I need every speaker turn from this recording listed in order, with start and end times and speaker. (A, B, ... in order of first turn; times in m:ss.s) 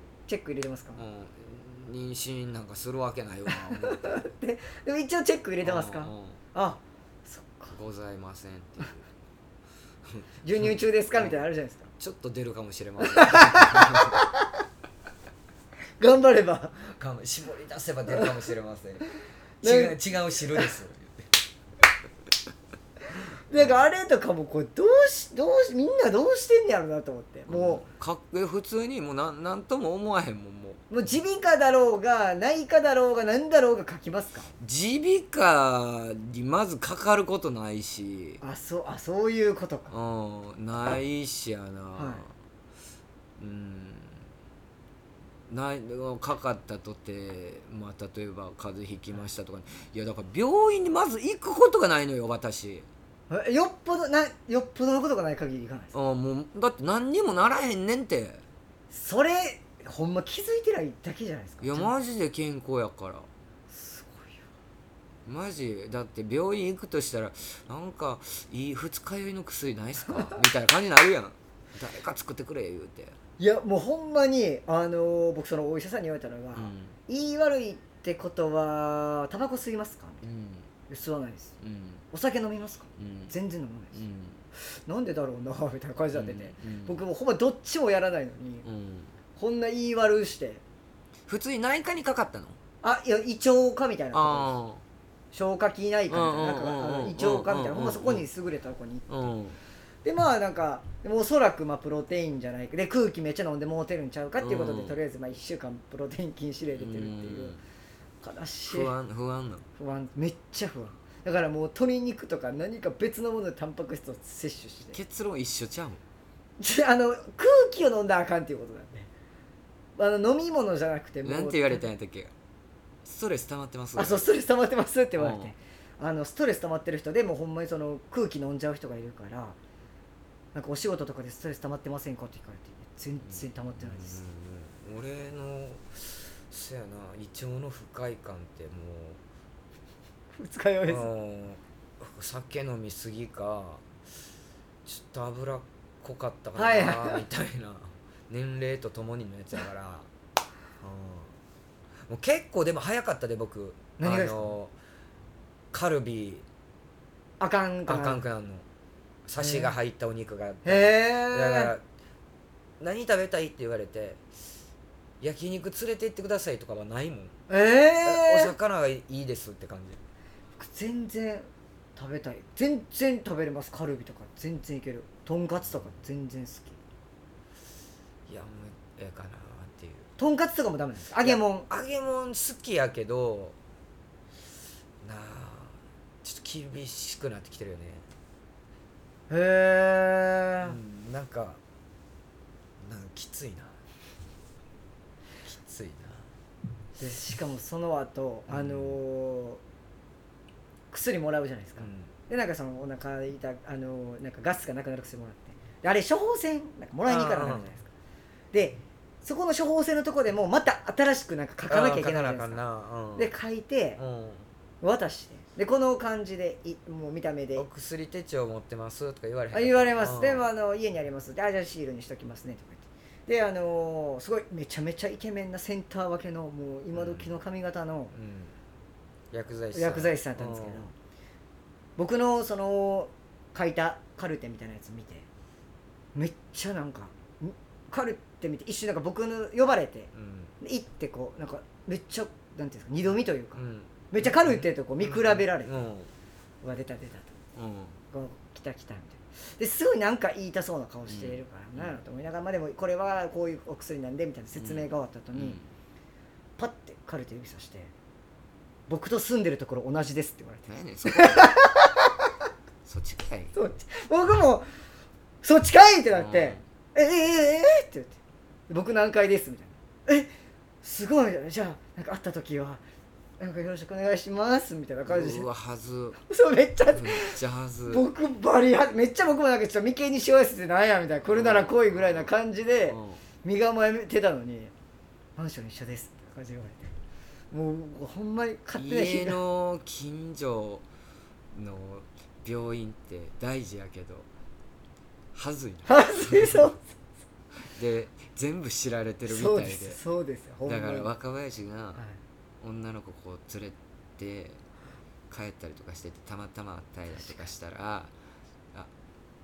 0:00.3-0:01.0 A
0:01.0-0:04.1 B
0:03.5-0:07.7 A
0:05.6-0:06.4 B
0:07.7-0:09.1 B
0:10.1-0:11.4 B
0:10.4-0:11.9 A
0:12.0-0:14.2 B
0:13.1-0:14.5 A
0:16.0-0:16.9 A
0:16.9-0:19.1 B
0:19.6-0:21.3 B
0:19.6-0:20.0 A
0:23.5-0:27.8 A
0:27.5-0:30.8 B
0:30.9-0:34.5 A
0:34.6-0:38.4 B
0:38.4-0:39.9 A
0:39.9-0:42.3 B
0:42.0-0:42.2 A
0:43.4-0:44.2 B
0:45.5-0:52.8 B
0:53.3-0:55.9 A
0:55.9-0:58.4 B
0:58.9-1:01.9 A
1:01.6-1:03.3 B
1:03.7-1:04.4 A
1:05.2-1:13.2 B
1:13.4-1:20.2 A
1:16.5-1:17.0 B
1:20.2-1:20.7 B
1:20.9-1:21.5 A
1:21.6-1:22.0 B
1:22.1-1:24.0 A
1:23.0-1:23.3 B
1:23.9-1:24.4 B
1:24.6-1:28.6 A
1:26.1-1:27.0 B
1:28.6-1:29.1 B
1:29.4-1:30.6 A
1:31.3-1:32.6 B
1:32.8-1:34.5 A
1:34.1-1:34.8 B
1:35.3-1:39.0 A
1:36.1-1:38.2 B
1:39.1-1:39.6 B
1:40.0-1:47.6 A
1:44.4-1:45.0 B
1:46.7-1:47.6 B
1:48.2-1:48.9 A
1:48.7-1:49.6 B
1:49.8-1:55.0 A
1:54.9-1:56.0 B
1:56.6-1:59.1 A
2:00.0-2:01.9 A
2:01.2-2:02.3 B
2:03.0-2:04.3 B
2:04.0-2:09.6 A
2:05.2-2:05.5 B
2:10.5-2:14.2 A
2:13.2-2:19.2 B
2:20.3-2:21.1 A
2:20.9-2:23.8 B
2:24.8-2:30.1 B
2:26.6-2:27.2 A
2:30.8-2:31.3 B
2:32.1-2:34.7 B
2:34.0-2:34.5 A
2:35.7-2:36.4 B
2:37.4-2:38.2 A
2:37.9-2:38.6 B
2:39.2-2:41.8 B
2:39.4-2:39.7 A
2:40.6-2:41.7 A
2:42.8-2:44.2 B
2:45.2-2:47.3 B
2:47.5-2:48.5 A
2:48.0-2:50.0 B
2:50.6-2:56.8 A
2:58.3-3:00.1 B
3:00.2-3:01.7 A
3:01.2-3:03.6 B
3:05.0-3:08.0 B
3:09.3-3:10.8 A
3:10.6-3:11.6 B
3:12.8-3:13.7 B
3:15.4-3:16.2 B
3:17.0-3:19.6 A
3:18.5-3:19.0 B
3:20.9-3:27.9 A
3:21.8-3:22.1 B
3:27.0-3:27.7 B
3:28.5-3:32.6 A
3:31.7-3:33.3 B
3:33.1-3:34.0 A
3:34.0-3:34.5 B
3:34.8-3:37.6 A
3:37.5-3:40.4 B
3:39.5-3:48.1 A
3:46.9-3:47.3 B
3:48.1-3:48.5 B
3:49.3-3:50.9 B
3:49.7-3:50.9 A
3:52.0-3:55.2 A
3:56.1-4:05.7 A
4:00.1-4:00.5 B
4:03.5-4:06.1 B
4:06.6-4:07.3 A
4:07.6-4:08.0 B
4:08.1-4:15.6 A
4:11.1-4:12.0 B
4:14.6-4:15.7 B
4:16.6-4:17.9 A
4:18.9-4:22.1 A
4:20.7-4:21.5 B
4:22.8-4:23.5 B
4:23.5-4:24.6 A
4:25.4-4:28.1 A
4:26.1-4:26.6 B
4:28.7-4:30.3 A
4:30.8-4:32.8 A
4:33.4-4:35.5 A
4:35.1-4:36.2 B
4:36.3-4:37.3 A
4:36.9-4:38.0 B
4:37.9-4:44.7 A
4:41.2-4:42.3 B
4:42.9-4:43.2 B
4:45.4-4:46.9 A
4:47.5-4:49.4 A
4:48.8-4:50.8 B
4:51.5-4:54.3 B
4:55.3-4:56.7 B
4:55.9-4:56.9 A
4:57.6-5:00.0 B
4:59.3-5:01.1 A
5:00.6-5:02.0 B
5:02.6-5:04.6 B
5:05.3-5:08.1 B